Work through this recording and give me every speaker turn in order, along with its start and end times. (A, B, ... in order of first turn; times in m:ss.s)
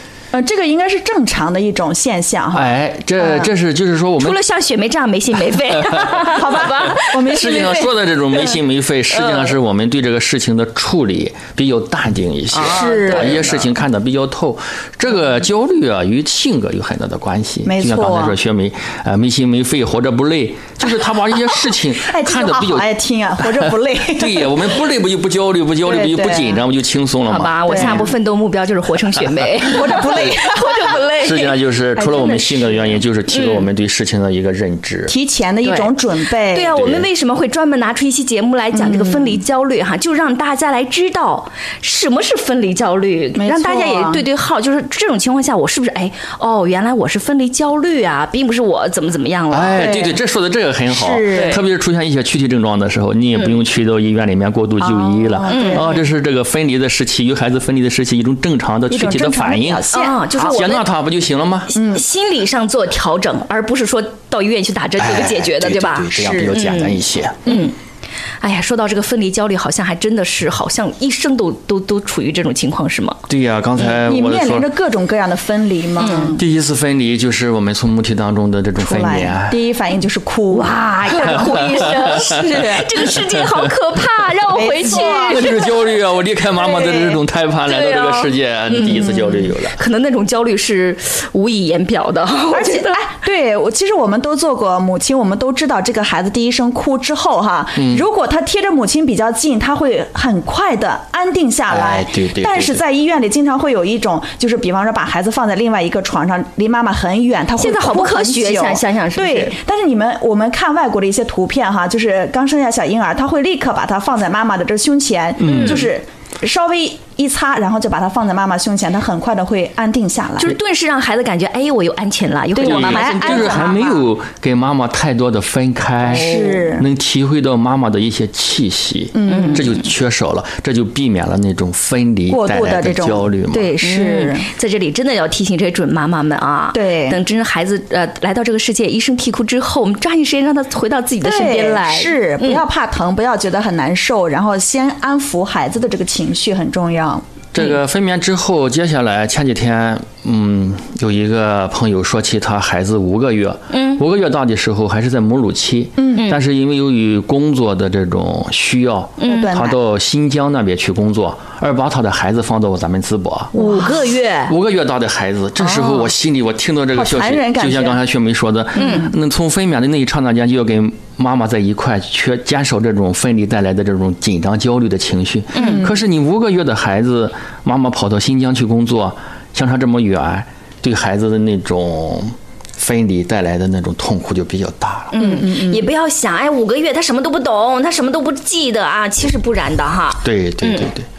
0:00.3-0:03.5 A
0:02.5-0:04.4 B
0:04.2-0:07.7 C
0:05.8-0:06.2 B
0:06.3-0:07.9 A
0:07.3-0:22.9 B
0:09.1-0:09.5 C
0:12.5-0:13.5 C
0:12.6-0:13.6 A
0:17.6-0:18.4 A
0:21.9-0:24.6 A
0:23.4-0:28.0 B
0:25.8-0:26.6 A
0:27.3-0:31.5 C
0:27.7-0:28.1 A
0:29.6-0:30.9 A
0:31.2-0:35.1 B
0:32.0-0:33.0 A
0:33.3-0:33.6 C
0:35.1-0:36.8 A
0:35.6-0:35.9 C
0:36.5-0:50.0 C
0:36.8-0:37.1 B
0:38.7-0:39.4 A
0:43.4-0:44.2 A
0:49.5-1:01.7 B
0:49.8-0:50.2 A
0:50.9-0:51.6 A
0:51.3-0:51.6 C
0:55.1-0:56.0 A
0:55.4-0:55.9 C
0:58.9-1:00.6 A
0:59.9-1:00.8 C
1:01.7-1:02.0 A
1:01.7-1:07.7 C
1:05.0-1:07.5 B
1:06.2-1:06.5 A
1:08.4-1:13.2 C
1:13.3-1:14.7 B
1:13.9-1:16.4 A
1:16.0-1:16.4 C
1:16.4-1:19.6 B
1:18.8-1:22.9 A
1:20.5-1:25.6 C
1:21.4-1:23.7 B
1:24.5-1:25.8 A
1:25.3-1:29.8 B
1:26.5-1:27.2 A
1:27.6-1:33.0 C
1:28.8-1:29.4 A
1:32.5-2:00.6 A
1:37.8-1:38.0 B
1:41.7-1:42.8 B
1:47.6-1:49.5 C
1:55.4-1:55.9 B
1:55.4-1:55.9 C
2:00.4-2:03.9 C
2:02.6-2:03.9 A
2:02.6-2:13.7 B
2:06.1-2:06.9 A
2:06.1-2:06.6 C
2:09.1-2:09.7 A
2:09.3-2:09.7 C
2:12.3-2:14.5 A
2:13.8-2:22.6 C
2:16.7-2:17.2 A
2:21.2-2:27.2 A
2:27.5-2:43.5 B
2:33.7-2:34.0 C
2:36.0-2:36.3 A
2:39.2-2:39.5 C
2:39.2-2:39.8 A
2:43.5-2:44.5 C
2:43.6-2:43.9 A
2:44.4-3:05.2 B
2:45.7-2:46.0 A
2:46.9-2:48.0 A
2:48.8-2:49.1 C
2:48.8-2:49.1 A
2:55.5-2:55.8 C
2:55.6-2:55.9 A
3:05.1-3:10.9 C
3:05.2-3:05.9 A
3:10.2-3:11.1 B